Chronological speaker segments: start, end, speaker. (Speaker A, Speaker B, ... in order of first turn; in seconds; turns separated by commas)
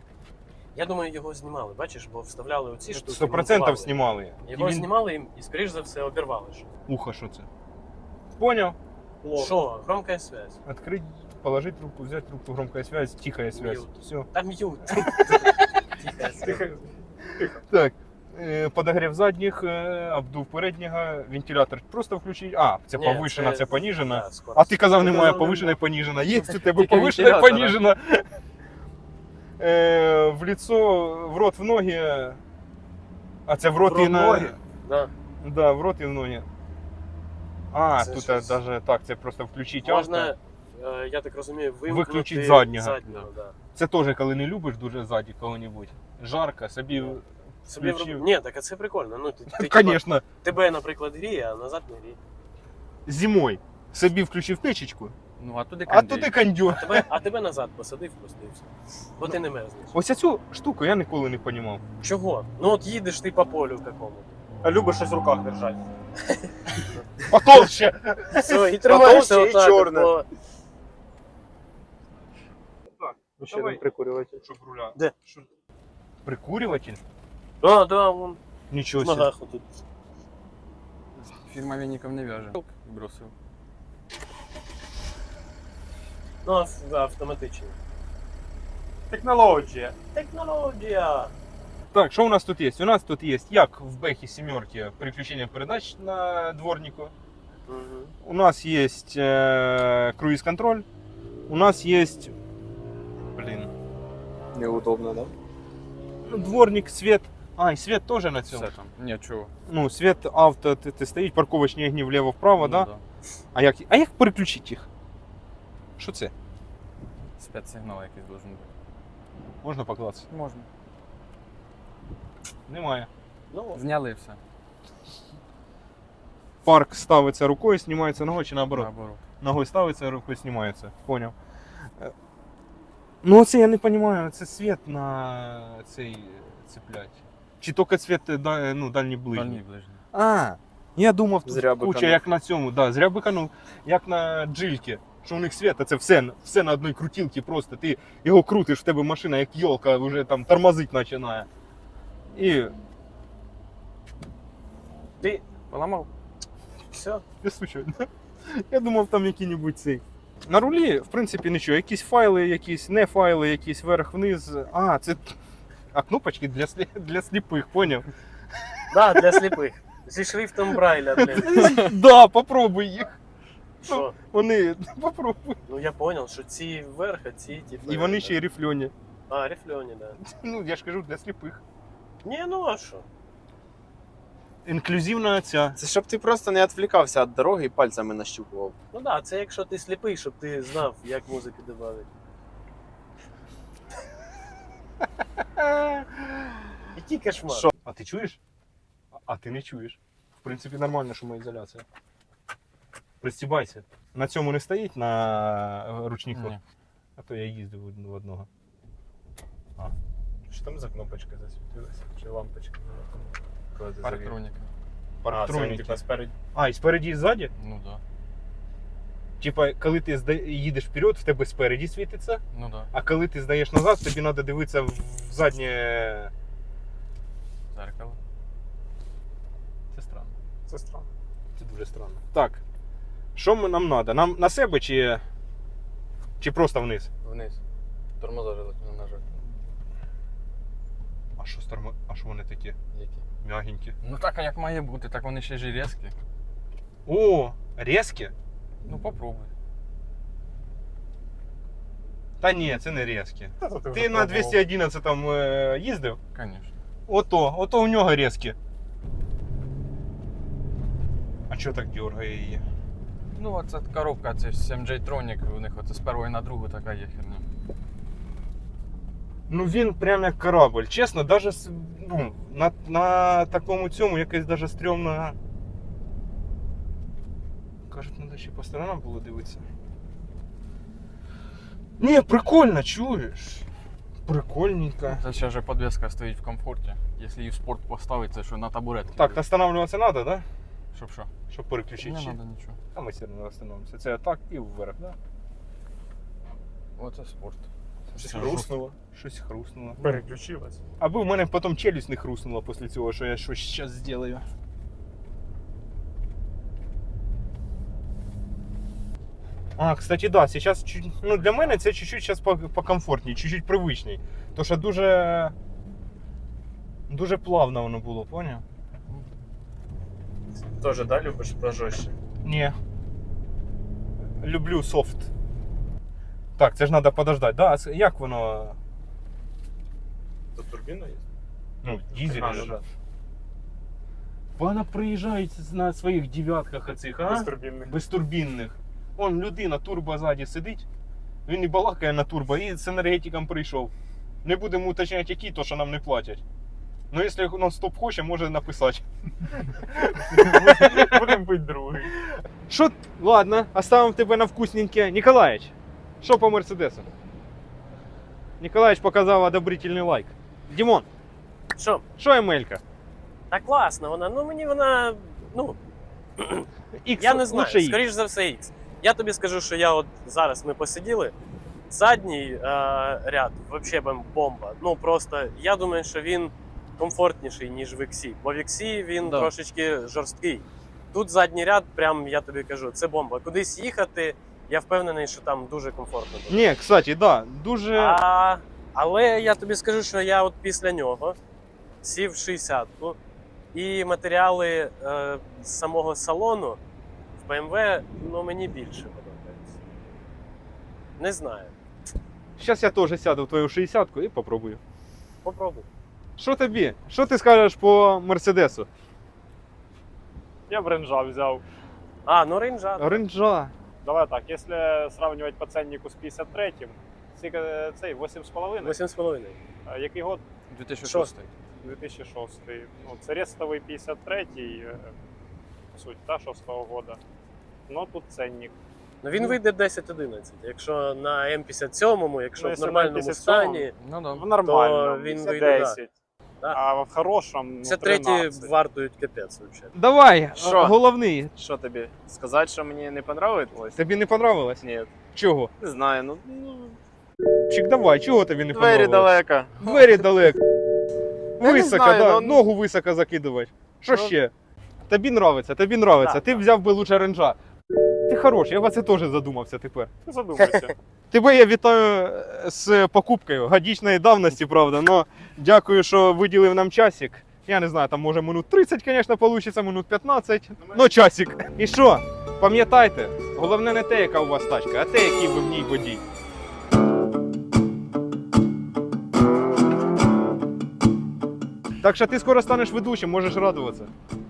Speaker A: 0.7-6.7, Speaker B: 2.9-4.9, Speaker B: 6.9-7.5, Speaker B: 8.4-8.8, Speaker C: 9.2-9.6, Speaker A: 9.3-10.6, Speaker B: 10.7-14.3, Speaker A: 13.5-16.7, Speaker C: 16.4-16.8, Speaker B: 17.6-28.3, Speaker A: 22.9-25.8, Speaker D: 26.4-27.8, Speaker B: 29.6-32.4, Speaker B: 33.5-34.6, Speaker A: 33.8-35.1, Speaker B: 35.4-36.4, Speaker B: 37.7-40.3, Speaker A: 38.0-38.6, Speaker A: 39.8-43.5, Speaker B: 41.9-43.0, Speaker B: 43.7-48.2, Speaker A: 47.0-52.2, Speaker B: 49.5-50.2, Speaker B: 53.1-55.1, Speaker D: 55.4-56.5, Speaker B: 55.9-57.1, Speaker A: 56.7-60.0, Speaker B: 59.9-61.8, Speaker A: 62.0-64.4, Speaker E: 64.6-65.8, Speaker A: 66.2-67.0, Speaker B: 67.3-68.7, Speaker A: 68.3-70.3, Speaker E: 68.8-70.1, Speaker B: 73.0-73.8, Speaker C: 73.4-74.4, Speaker B: 74.4-75.5, Speaker B: 76.2-77.0, Speaker A: 77.6-78.4, Speaker B: 78.7-79.3, Speaker A: 79.0-79.7, Speaker D: 81.3-83.3, Speaker A: 86.4-87.7, Speaker E: 89.1-89.9, Speaker A: 90.1-91.3, Speaker B: 91.9-97.1, Speaker A: 97.7-98.1, Speaker B: 98.2-100.9, Speaker B: 101.5-102.4, Speaker B: 103.3-103.7, Speaker E: 104.5-105.3, Speaker B: 106.3-108.7, Speaker D: 108.5-109.5, Speaker B: 109.7-112.9, Speaker D: 112.6-113.0, Speaker B: 113.5-114.9, Speaker B: 116.0-116.3, Speaker D: 117.4-118.7, Speaker B: 119.6-120.3, Speaker D: 120.3-120.7, Speaker B: 122.7-123.1, Speaker A: 123.5-123.8, Speaker D: 123.7-124.4, Speaker B: 126.6-128.9, Speaker D: 128.7-129.2, Speaker B: 129.4-131.3, Speaker B: 133.2-139.6, Speaker D: 139.3-140.0, Speaker B: 140.1-151.5, Speaker E: 141.4-142.2, Speaker B: 152.3-152.7, Speaker D: 155.7-156.1, Speaker A: 156.9-157.2, Speaker B: 157.4-165.4, Speaker B: 165.9-168.1, Speaker B: 168.6-169.4, Speaker A: 168.9-171.8, Speaker B: 171.2-173.2, Speaker A: 173.8-174.1, Speaker B: 173.9-175.6, Speaker A: 175.7-178.4, Speaker B: 177.8-178.9, Speaker A: 179.3-180.2, Speaker B: 180.2-181.6, Speaker A: 182.2-183.1, Speaker B: 184.6-185.8, Speaker E: 185.8-188.8, Speaker A: 188.9-192.1, Speaker B: 195.6-196.7, Speaker A: 196.9-197.7, Speaker B: 197.5-198.4, Speaker B: 199.1-201.8, Speaker B: 203.2-206.6, Speaker D: 206.3-206.6, Speaker B: 207.2-208.5, Speaker E: 210.5-214.3, Speaker D: 214.0-214.7, Speaker B: 215.2-216.0, Speaker E: 215.3-216.3, Speaker B: 216.5-217.5, Speaker D: 217.6-218.0, Speaker B: 219.4-226.3, Speaker D: 222.5-222.9, Speaker D: 227.7-228.2, Speaker B: 229.9-230.3, Speaker C: 230.7-231.1, Speaker B: 231.6-232.6, Speaker B: 233.4-235.2, Speaker B: 236.4-237.1, Speaker D: 237.2-237.6, Speaker D: 238.2-239.2, Speaker B: 241.4-242.8, Speaker D: 242.9-243.2, Speaker B: 243.4-243.9, Speaker D: 244.0-246.1, Speaker B: 247.1-248.3, Speaker D: 248.8-249.5, Speaker B: 252.4-256.2, Speaker C: 253.6-254.6, Speaker D: 256.4-256.7, Speaker B: 257.1-258.6, Speaker B: 261.5-262.6, Speaker D: 263.4-267.4, Speaker B: 269.5-275.4, Speaker B: 277.9-279.6, Speaker B: 282.0-283.6, Speaker B: 284.3-285.2, Speaker D: 285.1-289.4, Speaker B: 289.2-290.4, Speaker D: 290.9-291.3, Speaker B: 291.5-292.4, Speaker D: 292.0-292.8, Speaker B: 292.9-295.1, Speaker D: 297.0-297.6, Speaker E: 298.1-298.9, Speaker D: 298.2-298.7, Speaker B: 298.2-300.1, Speaker C: 300.0-300.8, Speaker B: 301.0-304.4, Speaker B: 309.8-315.5, Speaker B: 317.1-318.6, Speaker E: 320.8-322.1, Speaker B: 322.4-322.8, Speaker B: 324.4-325.3, Speaker B: 326.6-328.8, Speaker E: 330.6-331.2, Speaker B: 331.8-332.7, Speaker E: 332.1-332.9, Speaker B: 334.6-340.9, Speaker C: 337.2-337.9, Speaker B: 341.4-343.9, Speaker B: 344.4-346.4, Speaker B: 347.1-351.4, Speaker C: 350.4-352.1, Speaker B: 352.1-357.1, Speaker B: 358.6-361.1, Speaker A: 361.8-362.0, Speaker B: 362.2-362.8, Speaker A: 363.5-365.8, Speaker A: 366.4-366.7, Speaker B: 367.0-368.0, Speaker A: 367.2-371.3, Speaker A: 371.9-386.7, Speaker D: 379.2-379.5, Speaker B: 386.5-388.2, Speaker A: 387.9-391.4, Speaker A: 392.0-393.2, Speaker A: 393.7-396.8, Speaker A: 397.4-399.8, Speaker A: 401.2-401.7, Speaker B: 402.6-404.8, Speaker A: 405.4-405.9, Speaker B: 406.4-408.9, Speaker C: 410.7-411.6, Speaker A: 412.3-413.2, Speaker B: 413.0-413.7, Speaker C: 414.0-419.0, Speaker A: 418.8-419.6, Speaker C: 419.9-420.4, Speaker D: 420.7-421.5, Speaker A: 421.0-421.3, Speaker C: 421.8-425.1, Speaker C: 425.9-427.2, Speaker C: 427.9-428.7, Speaker A: 429.2-433.9, Speaker C: 432.6-436.1, Speaker D: 434.0-434.4, Speaker A: 434.6-436.0, Speaker C: 436.7-438.7, Speaker A: 437.8-439.9, Speaker B: 439.9-441.5, Speaker E: 440.5-441.0, Speaker E: 441.5-444.0, Speaker B: 443.9-445.7, Speaker E: 444.8-445.1, Speaker E: 445.8-447.0, Speaker B: 447.7-450.6, Speaker E: 448.7-449.8, Speaker B: 451.6-454.5, Speaker E: 451.6-452.6, Speaker B: 455.1-457.6, Speaker A: 456.2-456.6, Speaker B: 458.3-460.1, Speaker C: 460.3-460.9, Speaker B: 461.3-476.2, Speaker B: 482.0-484.1